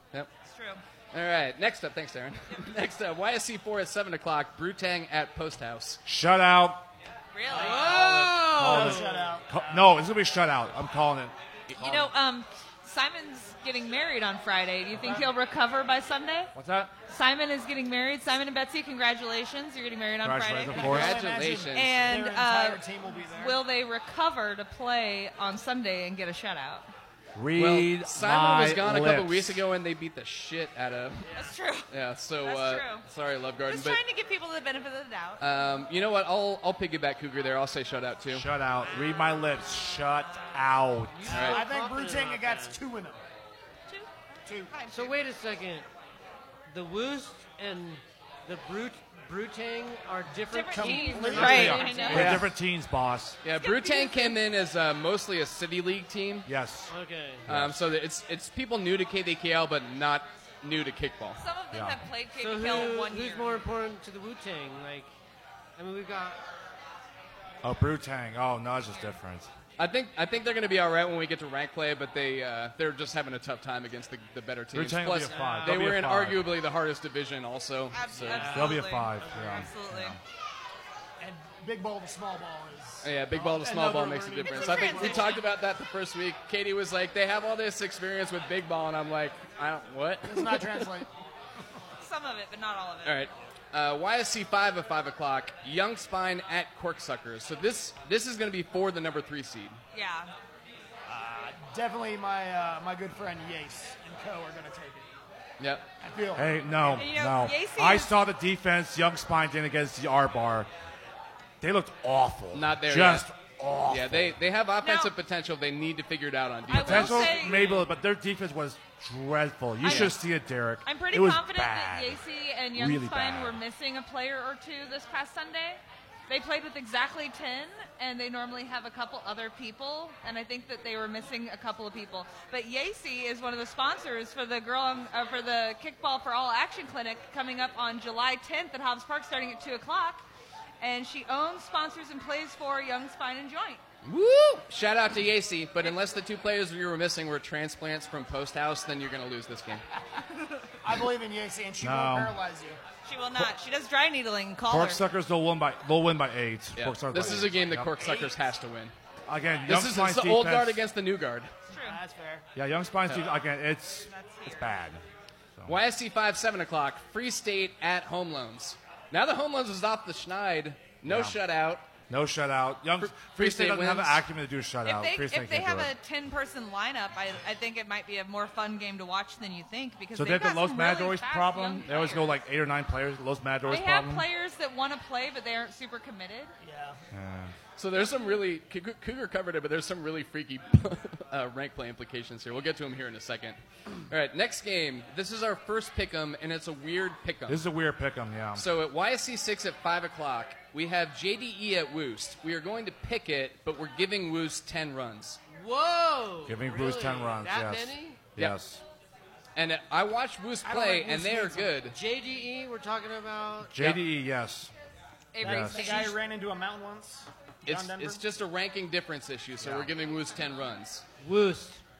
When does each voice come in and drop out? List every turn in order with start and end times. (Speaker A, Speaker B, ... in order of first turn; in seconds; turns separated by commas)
Speaker A: 0.4-0.8, Speaker B: 1.1-6.0, Speaker C: 6.0-6.8, Speaker A: 7.3-8.1, Speaker D: 7.5-9.9, Speaker E: 7.5-9.4, Speaker C: 8.6-12.1, Speaker A: 11.7-16.5, Speaker D: 14.9-15.3, Speaker C: 16.5-16.9, Speaker A: 17.1-21.1, Speaker C: 20.2-21.2, Speaker D: 20.7-23.6, Speaker B: 20.8-21.9, Speaker A: 21.7-26.9, Speaker C: 27.3-29.6, Speaker B: 27.6-31.3, Speaker D: 31.3-31.6, Speaker A: 31.3-31.9, Speaker B: 31.9-34.0, Speaker A: 32.4-33.0, Speaker A: 33.7-35.6, Speaker B: 35.4-38.5, Speaker C: 38.3-41.3, Speaker E: 41.1-42.8, Speaker D: 41.3-43.2, Speaker B: 41.3-41.6, Speaker A: 43.9-45.2, Speaker D: 44.5-44.8, Speaker E: 44.9-45.9, Speaker E: 46.7-52.4, Speaker A: 50.5-52.4, Speaker D: 50.7-52.2, Speaker C: 51.3-53.4, Speaker B: 52.1-52.5, Speaker B: 53.4-56.5, Speaker A: 53.6-54.4, Speaker C: 56.5-56.9, Speaker E: 56.9-57.5, Speaker C: 57.5-57.8, Speaker B: 57.5-61.4, Speaker A: 61.4-63.6, Speaker C: 61.7-62.0, Speaker E: 62.3-65.1, Speaker E: 65.8-66.4, Speaker C: 67.6-69.5, Speaker A: 68.9-69.2, Speaker B: 69.8-78.6, Speaker C: 74.7-76.6, Speaker E: 75.5-75.7, Speaker A: 77.9-80.2, Speaker D: 78.2-79.7, Speaker C: 78.3-80.2, Speaker D: 81.2-85.4, Speaker B: 83.0-90.9, Speaker A: 84.4-85.4, Speaker D: 90.2-91.1, Speaker A: 92.0-93.3, Speaker B: 93.0-99.8, Speaker A: 99.9-100.3, Speaker D: 101.1-105.1, Speaker B: 105.6-105.8, Speaker D: 106.0-107.1, Speaker C: 106.3-110.7, Speaker A: 106.9-108.2, Speaker C: 111.6-114.4, Speaker B: 112.5-113.3, Speaker B: 113.9-117.6, Speaker A: 114.8-115.1, Speaker A: 116.7-117.8, Speaker C: 116.7-122.2, Speaker A: 119.8-120.2, Speaker B: 119.8-120.1, Speaker A: 120.8-140.2, Speaker C: 122.7-123.6, Speaker A: 140.8-143.8, Speaker B: 144.0-149.8, Speaker D: 150.8-152.8, Speaker C: 151.8-152.3, Speaker A: 153.0-155.0, Speaker C: 154.7-158.0, Speaker B: 156.8-158.9, Speaker D: 158.0-158.3, Speaker C: 159.2-160.8, Speaker B: 159.6-161.5, Speaker A: 161.7-162.0, Speaker D: 161.7-162.4, Speaker C: 162.5-165.0, Speaker A: 164.1-164.7, Speaker B: 165.7-171.9, Speaker C: 171.0-171.4, Speaker C: 172.1-175.9, Speaker B: 173.0-174.2, Speaker A: 174.8-182.4, Speaker C: 180.1-184.3, Speaker A: 183.7-186.5, Speaker D: 186.6-187.0, Speaker C: 187.1-187.5, Speaker B: 187.8-197.6, Speaker C: 197.5-198.7, Speaker B: 198.5-205.4, Speaker E: 205.5-208.2, Speaker C: 206.4-208.8, Speaker B: 209.6-212.0, Speaker D: 210.6-211.2, Speaker E: 211.0-213.8, Speaker C: 213.7-214.7, Speaker A: 215.3-216.2, Speaker C: 215.4-216.0, Speaker D: 215.4-218.2, Speaker B: 217.7-221.0, Speaker C: 219.6-219.9, Speaker E: 221.2-221.8